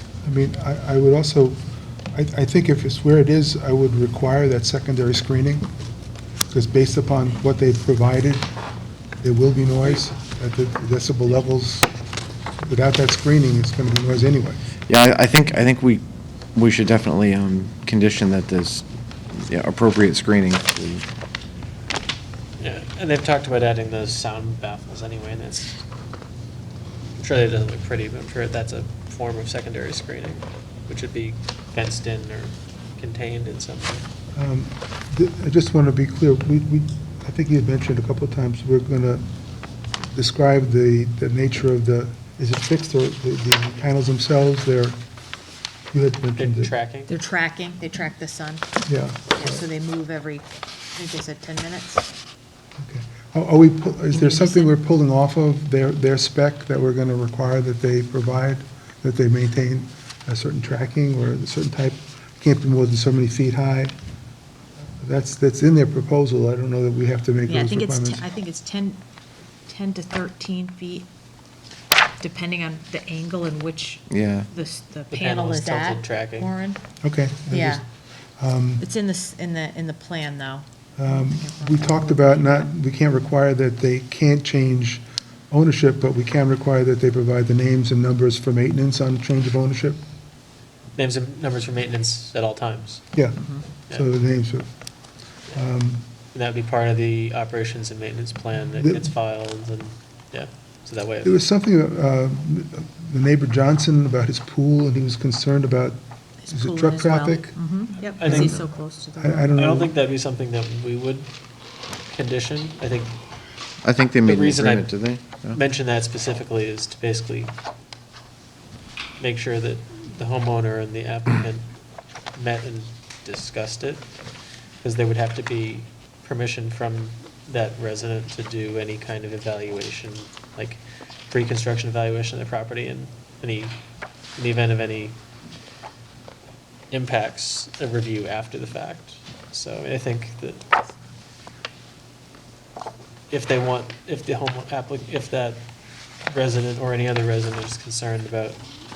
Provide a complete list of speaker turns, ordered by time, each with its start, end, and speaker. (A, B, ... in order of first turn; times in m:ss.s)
0:00.2-0:01.6 A
0:02.1-0:05.7 A
0:06.5-0:08.4 A
0:09.2-0:11.9 A
0:12.6-0:14.6 A
0:14.9-0:16.0 B
0:16.5-0:21.0 B
0:22.6-0:25.8 C
0:27.2-0:34.0 C
0:34.3-0:39.2 A
0:40.0-0:45.0 A
0:45.9-0:46.7 A
0:46.4-0:47.1 C
0:47.1-0:48.7 D
0:48.8-0:49.6 A
0:49.3-0:52.1 D
0:52.8-1:03.9 A
0:54.1-0:54.7 D
1:05.0-1:08.2 A
1:07.5-1:09.0 D
1:09.7-1:11.1 D
1:12.2-1:16.8 D
1:14.1-1:14.5 B
1:15.1-1:16.5 C
1:17.0-1:17.8 A
1:17.5-1:17.8 D
1:18.4-1:18.8 A
1:18.8-1:22.7 D
1:21.0-1:30.0 A
1:31.0-1:33.0 C
1:33.1-1:34.7 A
1:35.5-1:36.0 A
1:36.3-1:41.3 C
1:38.8-1:39.1 A
1:41.2-1:46.0 A
1:46.4-1:49.5 D
1:46.5-1:47.7 A
1:48.0-1:48.6 C
1:48.2-1:48.6 A
1:49.2-1:49.9 A
1:49.5-1:51.3 C
1:52.1-1:53.2 C
1:53.8-1:55.6 B
1:54.2-1:54.9 C
1:55.5-1:57.5 C
1:59.2-2:01.7 C
2:02.3-2:04.1 C
2:04.8-2:13.8 C
2:14.4-2:15.2 C
2:16.9-2:20.7 C
2:23.3-2:25.6 C
2:26.2-2:28.6 C